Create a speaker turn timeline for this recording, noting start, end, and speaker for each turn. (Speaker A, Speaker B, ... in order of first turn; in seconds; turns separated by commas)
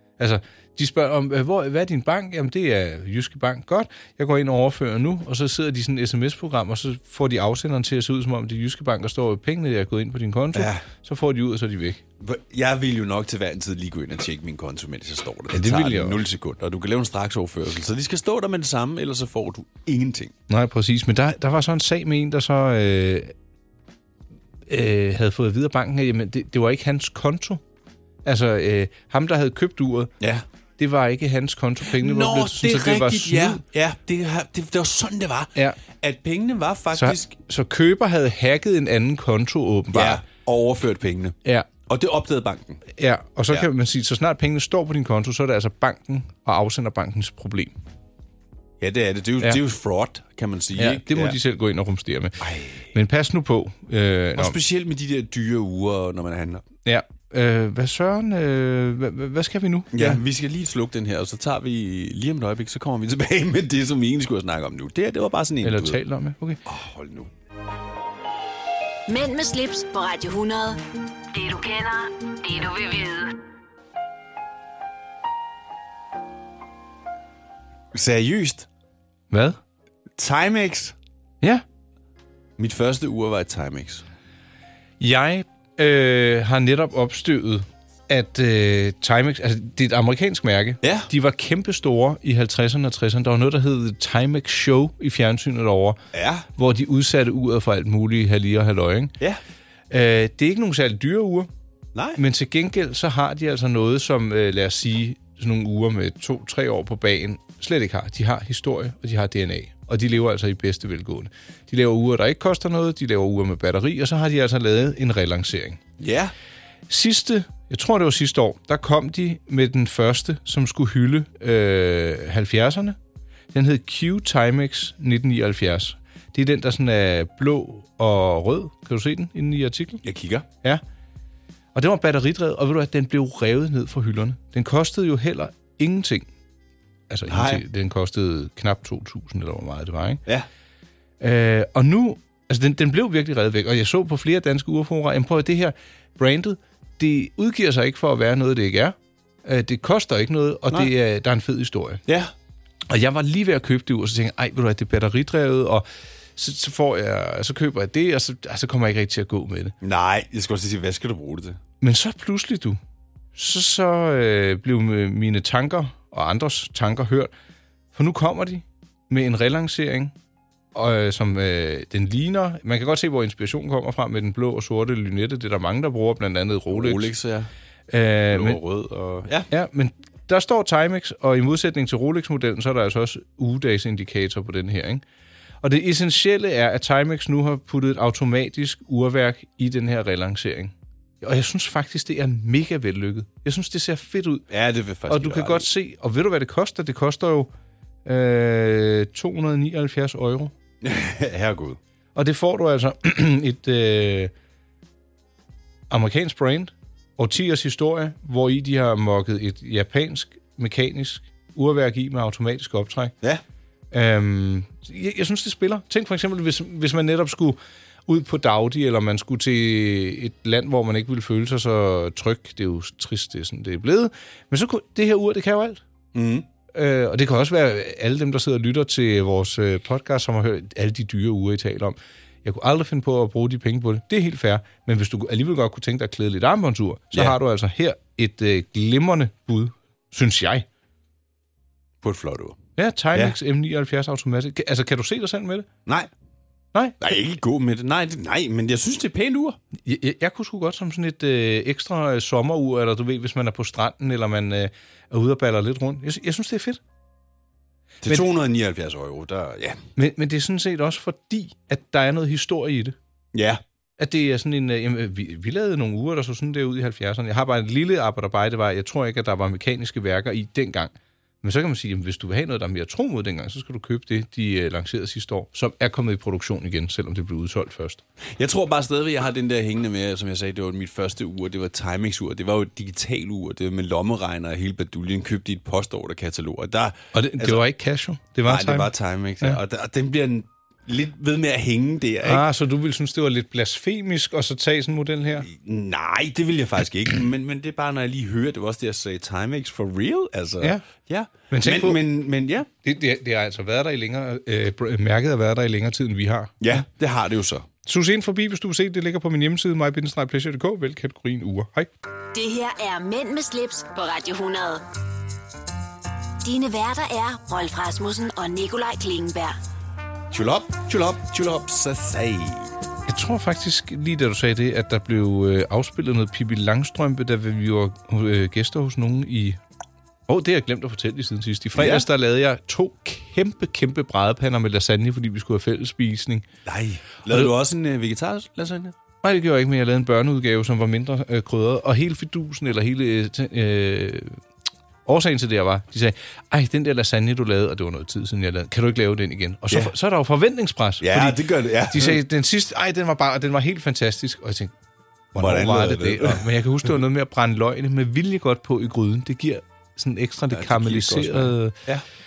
Speaker A: 0.2-12.0, Speaker B: 10.5-10.8, Speaker B: 12.2-20.3, Speaker A: 15.5-16.2, Speaker A: 20.5-23.3, Speaker A: 24.7-27.6, Speaker A: 28.2-30.1, Speaker A: 30.8-33.6, Speaker B: 31.9-37.4, Speaker A: 37.0-40.2, Speaker B: 39.9-42.8, Speaker A: 43.0-47.8, Speaker B: 48.8-51.4, Speaker A: 50.8-52.4, Speaker B: 52.4-52.9, Speaker A: 52.9-54.6, Speaker B: 54.4-56.6, Speaker A: 56.9-60.2, Speaker B: 59.9-66.0, Speaker A: 65.6-66.6, Speaker B: 66.7-67.3, Speaker C: 69.1-73.4, Speaker B: 77.9-78.7, Speaker A: 79.3-79.6, Speaker B: 80.2-81.0, Speaker B: 82.6-84.0, Speaker A: 85.0-96.0, Speaker B: 90.8-91.1, Speaker B: 96.1-96.5, Speaker A: 96.6-99.1, Speaker A: 99.9-101.5, Speaker B: 102.0-102.2, Speaker A: 102.2-115.8, Speaker B: 116.0-116.3, Speaker A: 116.9-123.0, Speaker A: 123.5-130.0, Speaker B: 130.0-130.5, Speaker A: 131.7-136.3, Speaker A: 137.1-140.2, Speaker B: 137.3-137.6, Speaker A: 141.2-152.0, Speaker B: 152.1-152.3, Speaker A: 152.9-155.8, Speaker A: 156.4-159.7, Speaker B: 159.8-161.6, Speaker A: 161.8-162.8, Speaker A: 163.4-167.3, Speaker A: 167.9-170.1, Speaker A: 170.8-177.1, Speaker B: 176.7-177.5, Speaker A: 177.9-178.6, Speaker B: 178.3-179.5, Speaker A: 179.5-185.0, Speaker A: 185.6-194.5, Speaker B: 194.5-195.7, Speaker A: 195.1-197.5, Speaker A: 198.1-200.5, Speaker B: 200.8-201.8, Speaker A: 202.2-204.3, Speaker A: 205.9-213.1, Speaker A: 213.9-225.8, Speaker B: 226.1-226.5, Speaker A: 226.7-240.7, Speaker B: 242.0-242.6, Speaker A: 242.8-245.7, Speaker B: 247.0-249.6, Speaker A: 249.8-256.8, Speaker B: 258.0-259.8, Speaker A: 260.0-263.0, Speaker B: 263.3-263.6, Speaker A: 264.0-278.0, Speaker B: 278.4-287.6, Speaker A: 287.1-289.6, Speaker B: 288.4-292.4, Speaker A: 292.2-295.5, Speaker B: 295.4-302.7, Speaker A: 301.5-302.0, Speaker A: 302.8-306.8, Speaker B: 306.6-307.7, Speaker A: 307.9-311.9, Speaker C: 312.3-314.8, Speaker C: 316.4-319.6, Speaker B: 320.3-322.7, Speaker A: 323.1-329.6, Speaker A: 330.3-336.4, Speaker B: 331.8-332.1, Speaker B: 336.6-338.9, Speaker A: 339.2-344.4, Speaker A: 345.1-351.4, Speaker B: 351.0-352.2, Speaker A: 351.9-354.7, Speaker A: 355.3-361.8, Speaker B: 355.4-356.4, Speaker B: 360.5-362.0